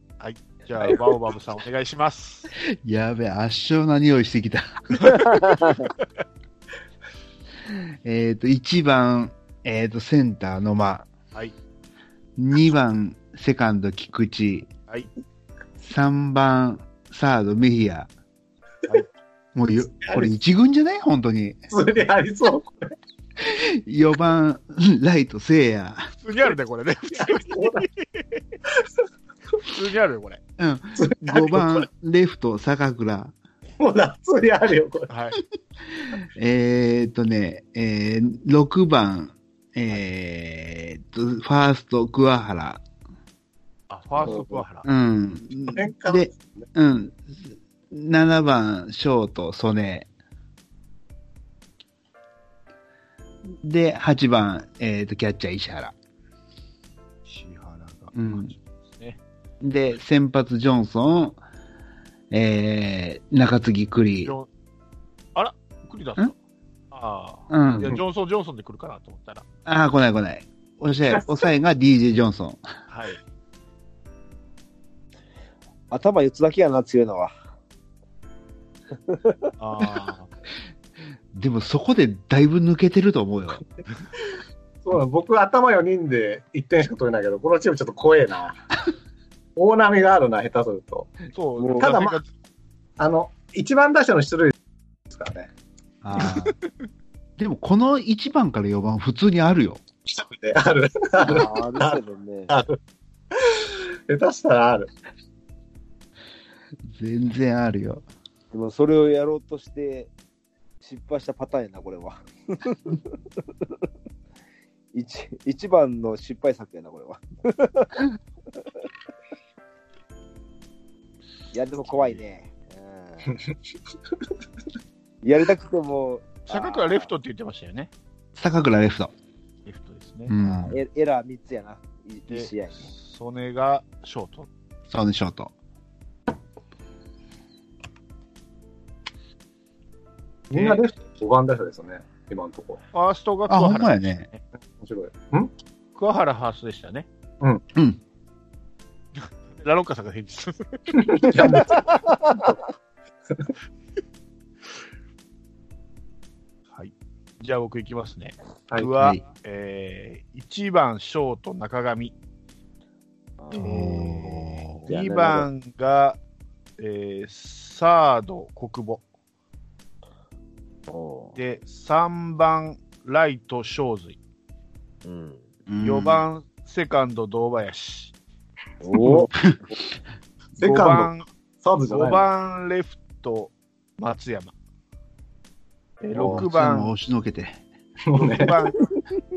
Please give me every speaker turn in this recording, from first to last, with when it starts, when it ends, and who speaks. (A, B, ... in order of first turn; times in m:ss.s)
0:00.2-0:02.5 A
0:02.7-0:05.2 B
0:05.3-0:05.9 C
0:07.7-0:11.1 B
0:12.4-0:14.7 B
0:15.8-0:18.1 B
0:19.6-0:21.7 B
0:20.0-0:20.3 D
0:21.7-0:22.9 D
0:23.4-0:26.1 B
0:26.2-0:28.4 A
0:27.1-0:27.9 D
0:29.6-0:30.4 A
0:30.6-0:33.3 B
0:31.0-0:31.9 D
0:33.8-0:35.1 D
0:35.1-0:35.4 A
0:35.9-0:42.8 B
0:43.9-0:44.9 A
0:44.2-0:44.5 D
0:44.8-0:50.1 B
0:45.7-0:46.7 D
0:53.6-0:55.9 B
0:57.3-0:59.2 A
0:58.1-0:58.5 B
0:59.6-1:01.4 B
1:02.3-1:04.4 B
1:05.4-1:06.4 A
1:06.9-1:09.4 A
1:07.5-1:08.0 B
1:09.7-1:12.6 B
1:12.9-1:13.2 A
1:15.9-1:17.3 C
1:19.1-1:19.4 C
1:19.6-1:20.3 A
1:21.3-1:23.6 B
1:24.8-1:28.6 D
1:29.6-1:31.2 D
1:31.3-1:32.3 A
1:31.6-1:31.9 C
1:31.8-1:32.2 D
1:33.0-1:34.5 D
1:35.1-1:35.5 D
1:36.0-1:36.6 B
1:37.4-1:39.8 B
1:40.1-1:42.8 D
1:41.2-1:42.5 C
1:43.3-1:44.9 D
1:46.9-1:48.0 B
1:48.5-1:50.1 C
1:50.8-1:53.0 C
1:54.9-1:58.0 C
2:01.5-2:03.4 C
2:05.2-2:07.1 C
2:06.5-2:07.9 A
2:08.4-2:09.1 B
2:09.7-2:10.4 A
2:10.3-2:10.8 B
2:10.7-2:12.9 C
2:12.3-2:14.5 A
2:14.9-2:15.5 B
2:20.5-2:22.8 D
2:20.5-2:20.8 A
2:22.9-2:24.4 A
2:23.5-2:24.3 B
2:24.8-2:25.5 D
2:26.0-2:27.1 A
2:29.2-2:31.7 A
2:31.0-2:32.6 D
2:36.7-2:42.1 A
2:38.8-2:39.2 B
2:43.4-2:44.0 C
2:43.5-2:46.2 A
2:43.6-2:44.8 B
2:44.9-2:45.5 C
2:46.8-2:49.0 A
2:50.9-2:51.4 C
2:51.4-2:54.2 A
2:55.0-2:55.4 C
2:55.7-2:56.2 B
2:55.8-2:58.1 A
2:58.8-2:59.3 C
3:00.6-3:01.1 D
3:00.6-3:01.2 A
3:01.6-3:02.2 D
3:01.9-3:04.5 A
3:06.0-3:06.9 A
3:06.2-3:07.6 B
3:08.1-3:08.6 D
3:08.2-3:08.8 A